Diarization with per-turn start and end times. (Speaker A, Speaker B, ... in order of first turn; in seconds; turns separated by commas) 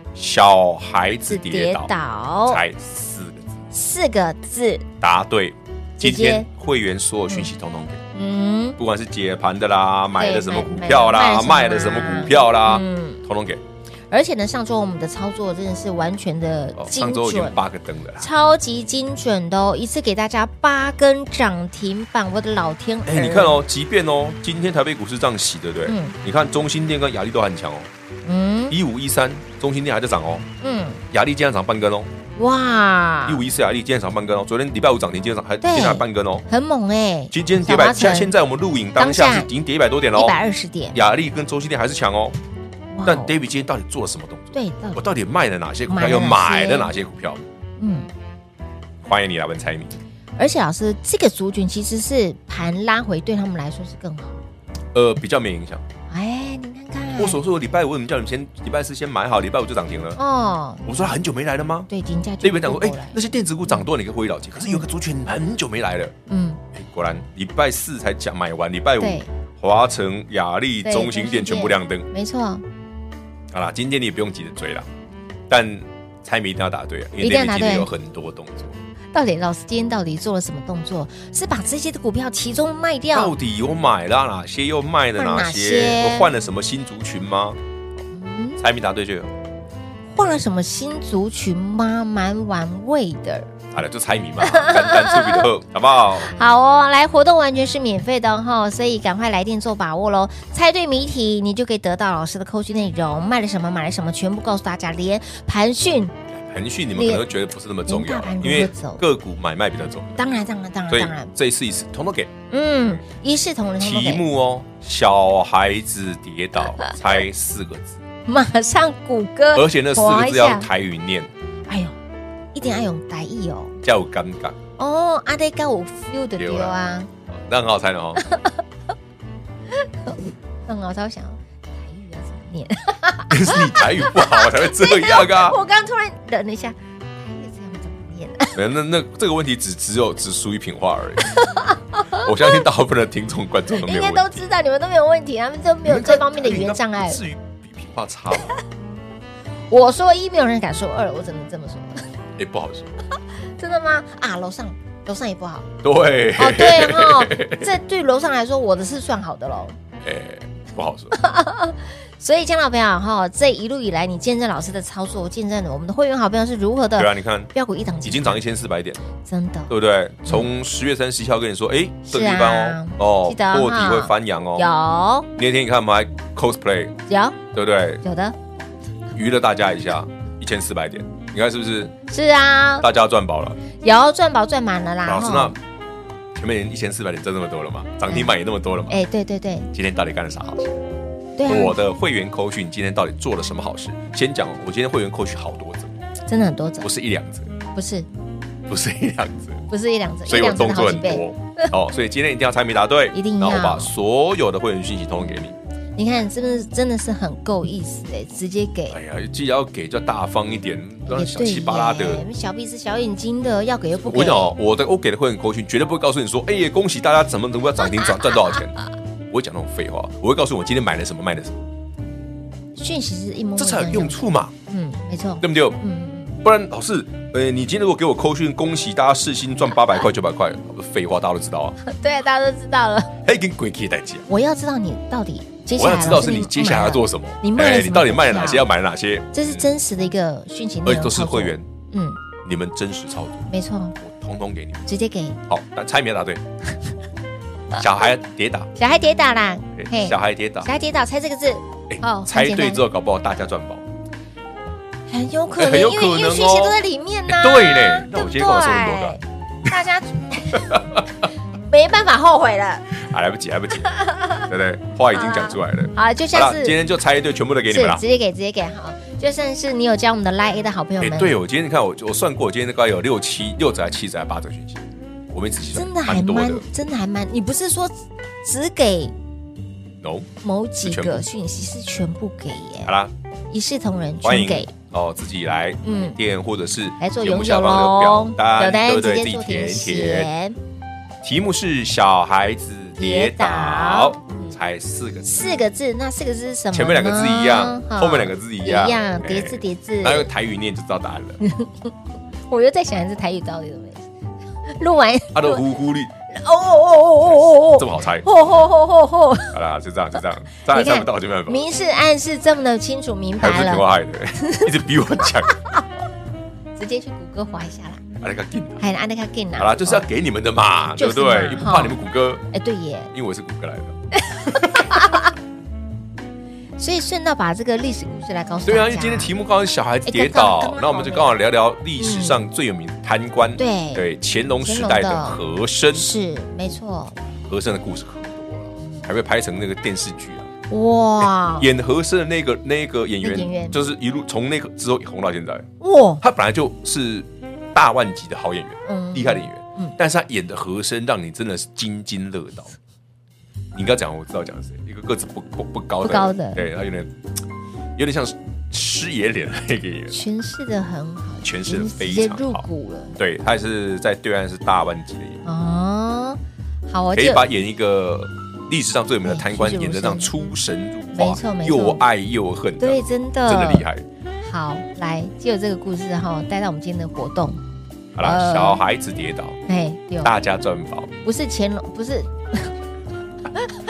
Speaker A: 0.1-1.9, Speaker B: 1.3-2.6, Speaker A: 2.5-3.6, Speaker B: 3.7-4.9, Speaker A: 5.0-8.0, Speaker B: 6.0-6.5, Speaker B: 8.1-8.8, Speaker A: 8.8-13.6, Speaker B: 10.2-13.2, Speaker B: 14.1-17.6, Speaker A: 16.8-18.3, Speaker B: 18.2-23.6, Speaker A: 23.1-27.9, Speaker B: 25.9-26.1, Speaker B: 28.2-28.7, Speaker A: 28.7-30.5, Speaker B: 30.6-31.0, Speaker A: 31.1-32.1, Speaker B: 32.4-33.4, Speaker A: 33.2-36.4, Speaker B: 35.6-38.3, Speaker A: 37.3-40.4, Speaker B: 39.0-39.5, Speaker B: 40.1-41.0, Speaker A: 40.9-42.4, Speaker B: 42.9-43.4, Speaker A: 43.0-47.4, Speaker B: 44.5-45.0, Speaker B: 45.9-46.9, Speaker B: 47.8-48.1, Speaker A: 49.0-50.0, Speaker B: 50.4-54.4, Speaker A: 54.9-55.8, Speaker B: 56.1-57.4, Speaker A: 57.1-60.2, Speaker B: 60.2-60.8, Speaker A: 60.8-61.9, Speaker B: 61.9-63.8, Speaker A: 62.4-66.1, Speaker B: 66.3-66.6, Speaker A: 66.7-72.1, Speaker B: 69.0-69.3, Speaker B: 70.8-72.6, Speaker A: 73.5-74.9, Speaker A: 75.5-78.8, Speaker B: 77.2-77.9, Speaker B: 79.1-83.3, Speaker A: 83.1-87.6, Speaker B: 85.2-86.3, Speaker B: 88.1-88.6, Speaker A: 88.6-89.3, Speaker B: 90.1-93.5, Speaker A: 93.7-96.3, Speaker B: 94.4-95.5, Speaker B: 96.2-106.1, Speaker A: 106.3-110.3, Speaker B: 106.9-107.2, Speaker B: 107.9-109.0, Speaker B: 110.2-111.3, Speaker A: 110.9-112.3, Speaker B: 112.5-114.2, Speaker A: 113.8-118.0, Speaker B: 118.3-120.7, Speaker A: 119.5-121.3, Speaker B: 121.7-122.0, Speaker B: 122.5-123.8, Speaker A: 123.8-124.6, Speaker B: 124.8-127.1, Speaker A: 126.4-126.8, Speaker A: 127.3-128.2, Speaker B: 128.2-128.6, Speaker B: 130.1-138.6, Speaker A: 133.3-135.6, Speaker A: 138.5-141.4, Speaker B: 141.2-142.3, Speaker A: 142.2-144.4, Speaker B: 143.7-147.2, Speaker A: 145.8-148.6, Speaker B: 149.7-152.1, Speaker A: 152.4-153.0, Speaker B: 153.4-155.7, Speaker A: 155.8-157.7, Speaker B: 156.4-159.8, Speaker A: 160.0-161.2, Speaker B: 161.1-168.4, Speaker A: 166.9-167.5, Speaker A: 168.0-169.0, Speaker B: 169.2-169.7, Speaker A: 169.7-174.7, Speaker B: 172.1-175.3, Speaker A: 175.3-177.0, Speaker B: 177.1-177.4, Speaker A: 177.5-178.0, Speaker B: 178.0-178.3, Speaker A: 179.1-181.9, Speaker B: 182.1-182.8, Speaker A: 182.8-183.6, Speaker B: 183.8-185.5, Speaker A: 185.0-185.6, Speaker A: 186.3-189.0, Speaker B: 188.9-189.7, Speaker A: 189.7-190.8, Speaker B: 191.4-191.7, Speaker A: 191.4-195.9, Speaker B: 196.3-196.9, Speaker A: 196.8-197.5, Speaker B: 197.8-198.1, Speaker A: 198.7-199.6, Speaker B: 199.7-201.7, Speaker A: 200.2-205.5, Speaker B: 203.1-203.9, Speaker B: 206.0-209.0, Speaker A: 208.9-212.2, Speaker B: 211.1-214.5, Speaker A: 214.1-218.8, Speaker B: 217.8-218.6, Speaker A: 219.3-221.6, Speaker B: 222.7-226.4, Speaker A: 223.6-224.5, Speaker A: 225.4-225.8, Speaker A: 226.4-231.8, Speaker B: 231.8-233.1, Speaker A: 233.2-234.3, Speaker B: 234.3-238.7, Speaker A: 235.8-239.7, Speaker B: 239.3-242.2, Speaker A: 240.8-241.7, Speaker A: 242.4-243.5, Speaker B: 243.5-243.9, Speaker A: 244.0-244.9, Speaker B: 244.9-245.4, Speaker A: 245.5-246.4, Speaker A: 247.7-248.7, Speaker B: 248.8-252.8, Speaker A: 249.8-250.7, Speaker A: 251.9-253.8, Speaker B: 255.1-260.9, Speaker A: 255.5-259.2, Speaker A: 260.5-261.0, Speaker B: 261.7-262.9, Speaker A: 262.9-268.0, Speaker B: 263.9-264.5, Speaker B: 265.1-266.8, Speaker B: 267.7-271.4, Speaker A: 271.0-276.6, Speaker B: 275.7-279.1, Speaker A: 280.0-280.3, Speaker B: 280.4-282.9, Speaker A: 280.8-281.3, Speaker A: 282.8-283.1, Speaker B: 283.5-284.7, Speaker A: 284.2-290.3, Speaker B: 285.8-286.2, Speaker B: 287.0-290.6, Speaker A: 291.2-295.5, Speaker B: 293.0-294.5, Speaker B: 295.2-300.3, Speaker A: 296.7-301.4, Speaker B: 301.4-301.9, Speaker B: 302.5-304.1, Speaker B: 304.7-305.6, Speaker A: 305.3-306.1, Speaker B: 306.3-309.5, Speaker A: 307.3-308.3, Speaker A: 309.5-311.7, Speaker B: 310.7-313.9, Speaker A: 313.4-315.6, Speaker B: 314.4-314.7, Speaker B: 316.8-318.0, Speaker A: 318.2-318.8, Speaker B: 318.8-320.1, Speaker A: 319.6-322.4, Speaker B: 320.9-322.0, Speaker B: 322.5-323.1, Speaker A: 323.1-324.9, Speaker B: 324.1-325.3, Speaker B: 326.8-329.3, Speaker A: 328.6-336.1, Speaker B: 330.1-331.4, Speaker B: 332.0-332.4, Speaker B: 333.6-334.0, Speaker B: 334.6-335.4, Speaker B: 335.9-337.2, Speaker A: 337.5-340.5, Speaker B: 340.7-341.7, Speaker A: 341.2-345.7, Speaker B: 343.2-343.8, Speaker B: 345.8-346.2, Speaker A: 346.2-352.7, Speaker B: 348.9-349.9, Speaker A: 353.7-357.1, Speaker B: 356.0-356.6, Speaker A: 357.9-360.2, Speaker B: 360.1-363.1, Speaker A: 361.4-365.4, Speaker B: 365.4-367.4, Speaker A: 367.1-374.0, Speaker B: 369.2-370.4, Speaker B: 371.1-372.0, Speaker B: 372.8-373.8, Speaker B: 374.4-377.6, Speaker A: 378.1-379.6, Speaker B: 378.2-378.8, Speaker B: 379.7-380.3, Speaker A: 380.2-381.1, Speaker B: 381.2-382.7